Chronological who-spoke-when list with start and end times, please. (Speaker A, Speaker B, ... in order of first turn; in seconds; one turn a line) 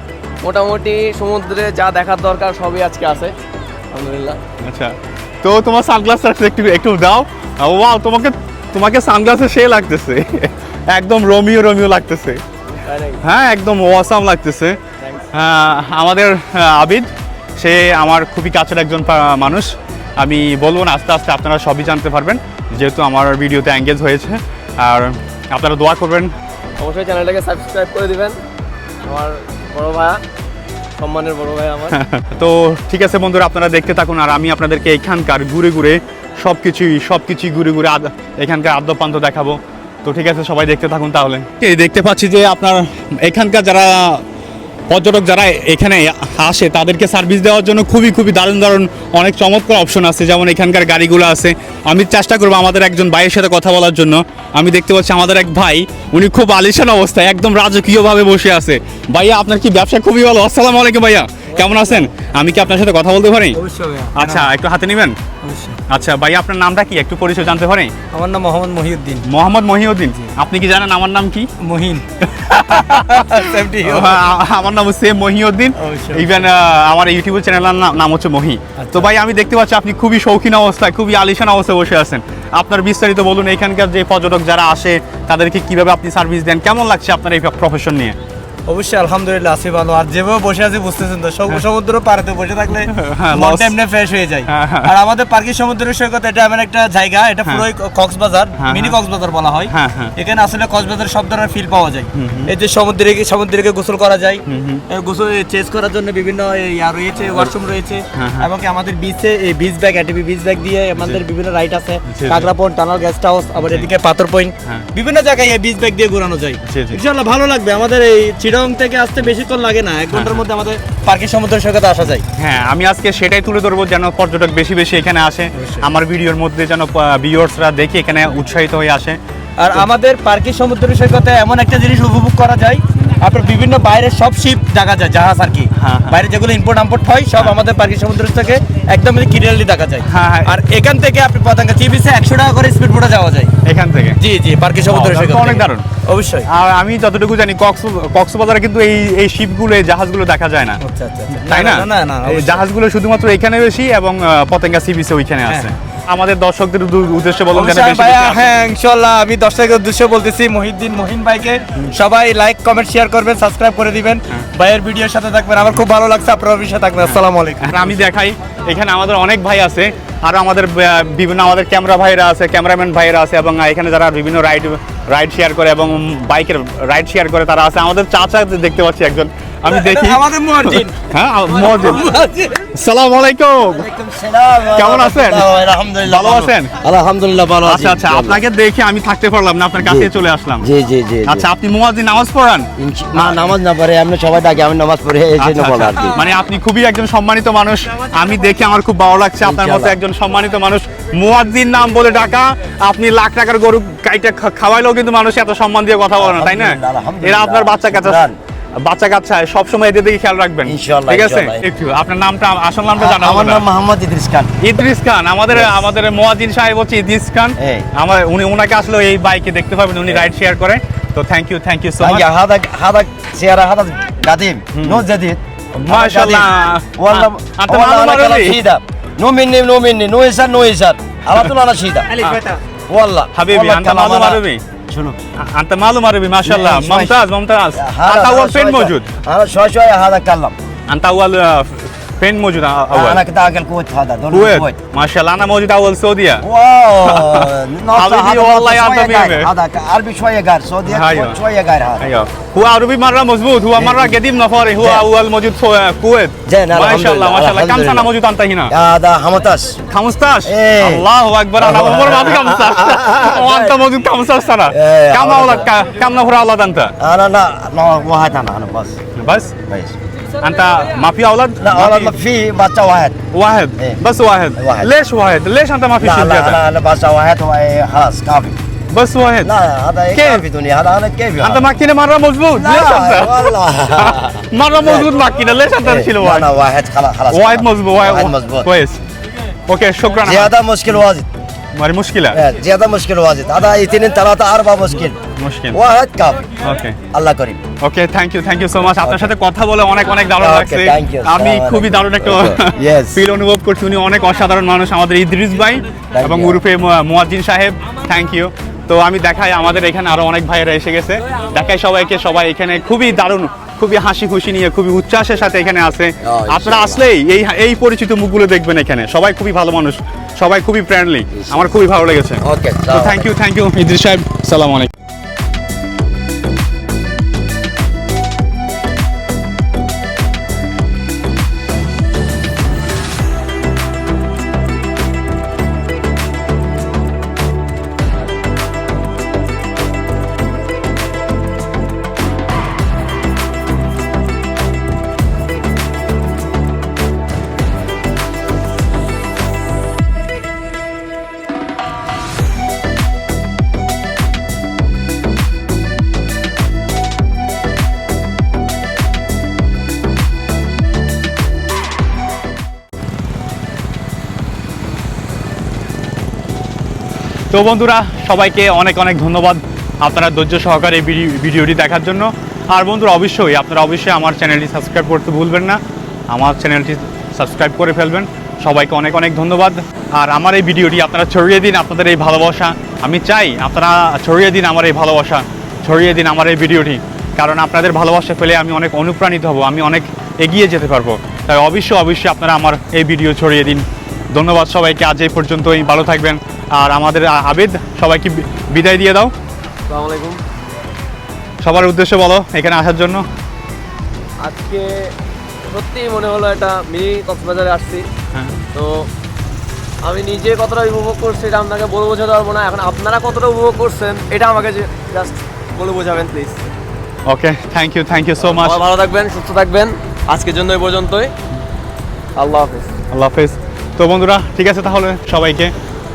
Speaker A: 0.4-3.3
Speaker A: 3.9-4.4
Speaker B: 4.6-12.4
Speaker A: 12.8-13.2
Speaker B: 13.2-14.8
Speaker A: 15.0-15.3
Speaker B: 15.3-26.3
Speaker A: 26.8-28.4
Speaker A: 29.1-30.2
Speaker A: 31.0-32.0
Speaker B: 31.9-44.2
Speaker B: 44.9-63.6
Speaker C: 63.5-64.5
Speaker B: 64.1-65.2
Speaker C: 65.4-65.8
Speaker B: 65.9-67.9
Speaker C: 68.1-69.3
Speaker B: 69.2-71.5
Speaker C: 71.6-72.0
Speaker B: 72.2-88.2
Speaker C: 72.6-74.2
Speaker C: 75.8-76.5
Speaker C: 78.8-79.1
Speaker C: 88.7-122.2
Speaker B: 92.8-93.8
Speaker B: 94.5-94.9
Speaker B: 98.6-99.0
Speaker B: 99.7-100.2
Speaker B: 102.1-102.5
Speaker B: 104.5-104.8
Speaker B: 108.1-108.5
Speaker B: 112.1-112.5
Speaker B: 113.6-113.9
Speaker B: 116.7-117.0
Speaker B: 120.1-120.4
Speaker B: 122.4-129.2
Speaker C: 125.6-125.9
Speaker C: 129.6-143.5
Speaker B: 135.8-136.2
Speaker B: 140.0-140.5
Speaker B: 143.7-144.2
Speaker C: 144.2-146.5
Speaker B: 144.8-145.8
Speaker B: 146.4-158.6
Speaker C: 150.8-152.6
Speaker C: 155.5-155.7
Speaker C: 157.5-168.0
Speaker B: 167.0-183.9
Speaker C: 179.7-180.9
Speaker C: 181.6-182.5
Speaker D: 183.7-188.4
Speaker B: 184.7-185.5
Speaker B: 186.0-186.7
Speaker B: 187.7-190.7
Speaker D: 189.8-191.5
Speaker B: 191.2-193.4
Speaker D: 192.8-196.2
Speaker B: 195.4-208.3
Speaker D: 199.4-200.0
Speaker D: 206.1-208.4
Speaker B: 208.8-213.7
Speaker D: 210.7-211.6
Speaker D: 213.0-214.5
Speaker B: 214.6-222.3
Speaker D: 215.5-215.9
Speaker D: 217.6-217.9
Speaker D: 222.0-232.2
Speaker B: 224.7-225.0
Speaker B: 225.8-228.6
Speaker D: 232.9-235.2
Speaker B: 233.3-234.6
Speaker B: 235.3-239.1
Speaker D: 236.4-237.2
Speaker D: 237.8-240.6
Speaker B: 240.9-243.2
Speaker D: 242.9-244.7
Speaker B: 244.3-246.4
Speaker D: 246.4-252.1
Speaker B: 247.1-249.5
Speaker B: 250.9-251.4
Speaker B: 252.0-258.7
Speaker D: 253.8-254.2
Speaker D: 254.8-255.1
Speaker D: 256.5-258.1
Speaker D: 258.7-259.8
Speaker B: 259.9-266.9
Speaker D: 260.4-261.1
Speaker D: 261.6-263.8
Speaker D: 264.7-265.7
Speaker D: 267.0-269.0
Speaker B: 269.2-269.6
Speaker D: 269.7-269.9
Speaker B: 270.4-272.1
Speaker D: 271.6-273.2
Speaker B: 273.3-276.6
Speaker D: 274.6-274.9
Speaker D: 276.0-278.6
Speaker B: 278.9-279.5
Speaker D: 279.4-281.7
Speaker B: 280.1-280.4
Speaker B: 281.4-286.5
Speaker D: 282.5-285.1
Speaker D: 285.8-288.7
Speaker B: 287.3-289.0
Speaker B: 289.7-290.5
Speaker D: 290.2-291.3
Speaker B: 291.8-292.4
Speaker D: 292.3-295.1
Speaker B: 295.2-295.8
Speaker D: 295.7-296.4
Speaker B: 296.6-297.0
Speaker D: 297.1-297.6
Speaker B: 297.8-324.9
Speaker D: 299.0-299.3
Speaker D: 300.4-303.2
Speaker D: 306.1-306.6
Speaker D: 316.2-317.1
Speaker D: 321.3-321.6
Speaker D: 322.4-323.3
Speaker B: 367.5-375.8
Speaker B: 376.3-399.3
Speaker A: 399.9-400.4
Speaker B: 401.6-403.2
Speaker A: 404.4-405.1
Speaker A: 405.6-408.1
Speaker A: 408.7-409.1
Speaker A: 410.0-416.7
Speaker B: 417.3-418.8
Speaker A: 418.4-421.3
Speaker A: 422.4-422.9
Speaker B: 423.1-425.7